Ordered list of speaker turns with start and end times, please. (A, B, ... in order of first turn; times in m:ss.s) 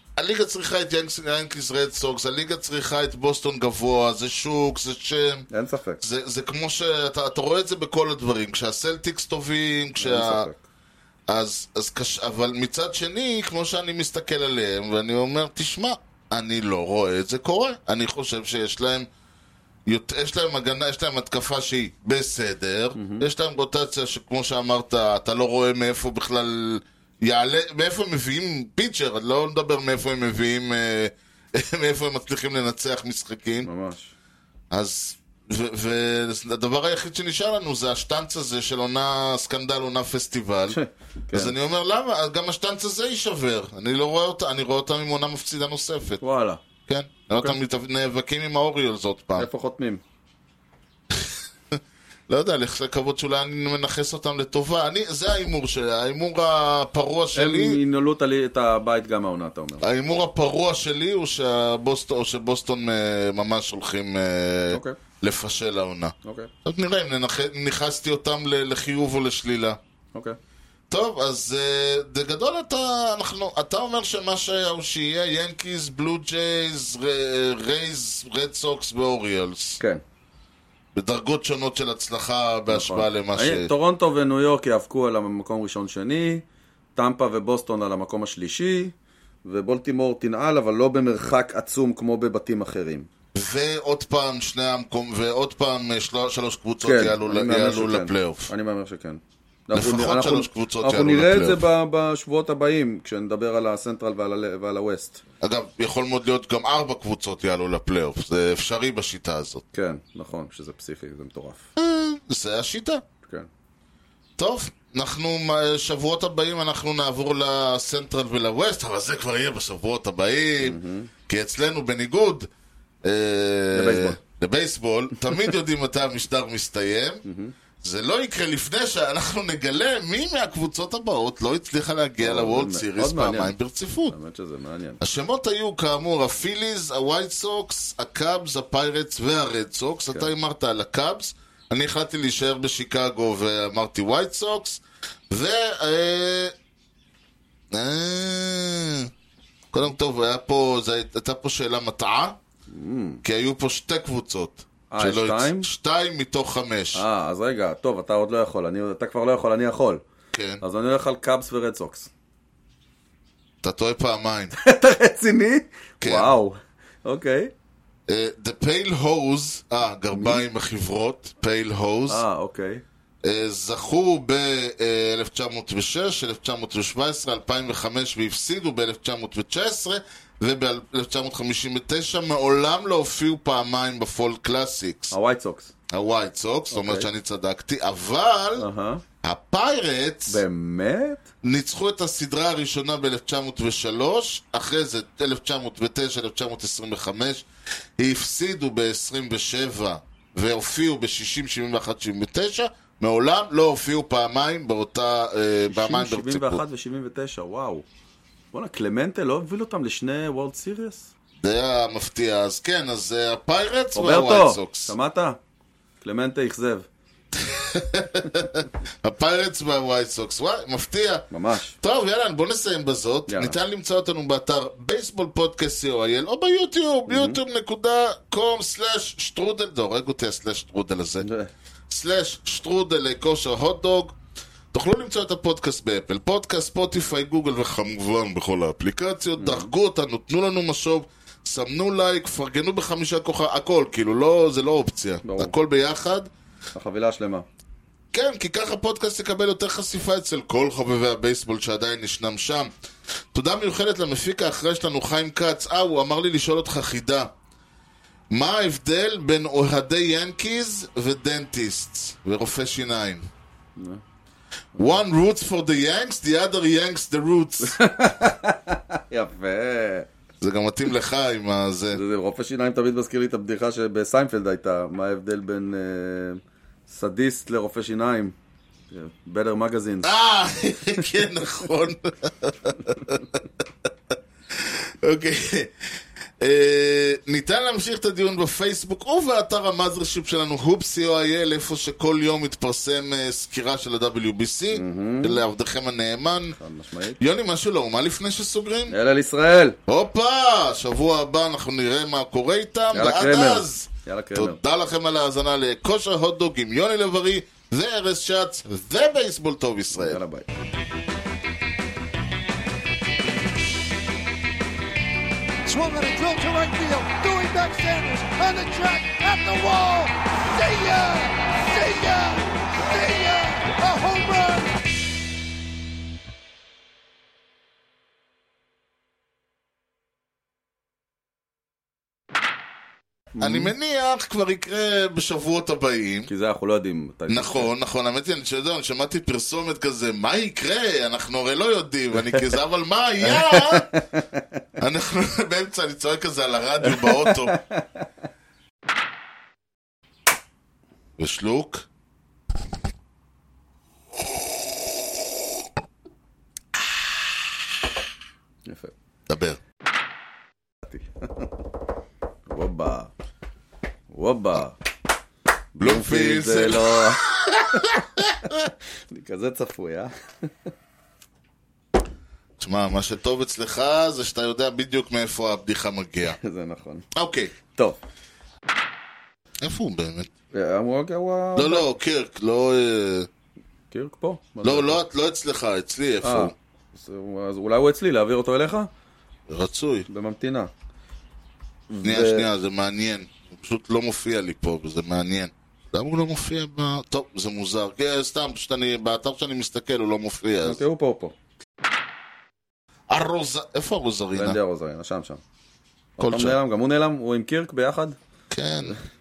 0:00.2-0:05.5 A
0:05.5-0:06.0 B
0:06.0-0:10.5 A
0:10.0-0:10.6 B
0:11.3-0:19.1 A
0:19.9-0:33.7 A
0:22.9-0:23.2 B
0:33.6-0:34.1 B
0:34.7-0:40.8 A
0:40.7-0:41.5 B
0:41.3-0:46.2 A
0:46.2-0:46.6 B
0:46.9-0:49.5 A
0:49.4-0:50.0 B
0:51.1-0:57.8 A
0:57.3-0:59.8 B
0:59.8-1:09.8 A
1:04.7-1:05.0 B
1:06.2-1:06.5 B
1:10.9-1:19.8 A
1:20.9-1:23.7 A
1:22.7-1:26.4 B
1:27.0-1:28.9 B
1:29.4-1:33.1 B
1:33.3-1:38.5 A
1:36.8-1:45.2 B
1:39.7-1:41.6 A
1:45.4-1:49.6 A
1:49.7-1:51.7 B
1:51.8-1:53.0 A
1:54.4-2:02.5 A
2:00.6-2:01.1 B
2:03.0-2:07.2 A
2:03.7-2:04.2 B
2:07.2-2:07.5 B
2:07.8-2:14.1 A
2:12.2-2:13.5 B
2:14.1-2:15.0 B
2:15.0-2:26.5 A
2:27.7-2:29.1 A
2:29.7-2:32.4 A
2:32.7-2:33.2 B
2:33.2-2:37.0 A
2:34.9-2:35.7 B
2:36.9-2:40.0 B
2:40.3-2:40.6 A
2:40.6-2:42.1 B
2:43.6-2:44.5 A
2:44.5-2:47.5 B
2:46.0-2:46.3 A
2:48.1-2:52.2 A
2:50.1-2:50.4 B
2:52.1-2:52.8 B
2:53.2-3:05.1 A
3:05.1-3:05.7 B
3:05.9-3:08.6 A
3:06.7-3:07.1 B
3:08.6-3:09.0 B
3:09.2-3:10.4 A
3:10.3-3:11.2 B
3:11.4-3:17.4 A
3:18.0-3:26.6 A
3:25.7-3:27.8 B
3:28.5-3:31.1 B
3:31.4-3:34.9 A
3:33.9-3:35.4 B
3:36.0-3:36.8 B
3:37.3-3:51.2 A
3:41.3-3:41.8 B
3:43.3-3:43.6 B
3:47.1-3:47.4 B
3:51.2-3:51.5 B
3:51.9-3:54.1 A
3:54.7-4:06.3 A
3:59.4-3:59.7 B
4:05.2-4:05.5 B
4:06.7-4:07.4 B
4:08.1-4:12.7 A
4:13.3-4:17.3 A
4:18.3-4:23.3 A
4:23.8-4:24.0 B
4:24.8-4:27.9 A
4:27.6-4:30.1 B
4:30.4-4:32.0 A
4:31.9-4:38.3 B
4:38.9-4:40.1 B
4:40.0-4:43.4 A
4:44.5-4:56.6 A
4:54.7-4:55.4 B
4:56.6-4:57.2 B
4:57.2-4:59.0 A
4:58.9-4:59.8 B
4:59.9-5:10.2 A
5:02.9-5:04.6 B
5:09.9-5:10.5 B
5:15.6-5:24.8 C
5:33.3-5:33.7 B
5:33.4-5:36.3 A
5:36.3-5:37.7 B
5:37.3-5:44.0 A
5:43.2-5:44.4 B
5:44.8-5:47.6 A
5:46.8-5:48.0 B
5:51.2-5:51.8 A
5:58.6-5:58.9 B
5:59.3-5:59.6 A
6:00.9-6:01.4 B
6:02.5-6:03.1 B
6:04.1-6:04.8 B
6:05.7-6:07.2 B
6:05.8-6:08.5 A
6:09.1-6:10.5 B
6:12.6-6:16.4 A
6:16.3-6:17.0 B
6:17.1-6:17.5 A
6:17.7-6:18.0 B
6:19.6-6:20.3 A
6:20.5-6:21.9 B
6:21.6-6:23.3 A
6:23.9-6:25.0 B
6:24.6-6:26.5 A
6:26.2-6:28.9 B
6:29.5-6:30.1 A
6:30.1-6:30.7 B
6:31.9-6:32.4 B
6:32.0-6:40.8 A
6:40.6-6:41.3 B
6:43.1-6:44.6 A
6:44.3-6:45.4 B
6:46.2-6:48.2 B
6:46.2-6:46.5 A
6:48.5-6:48.9 A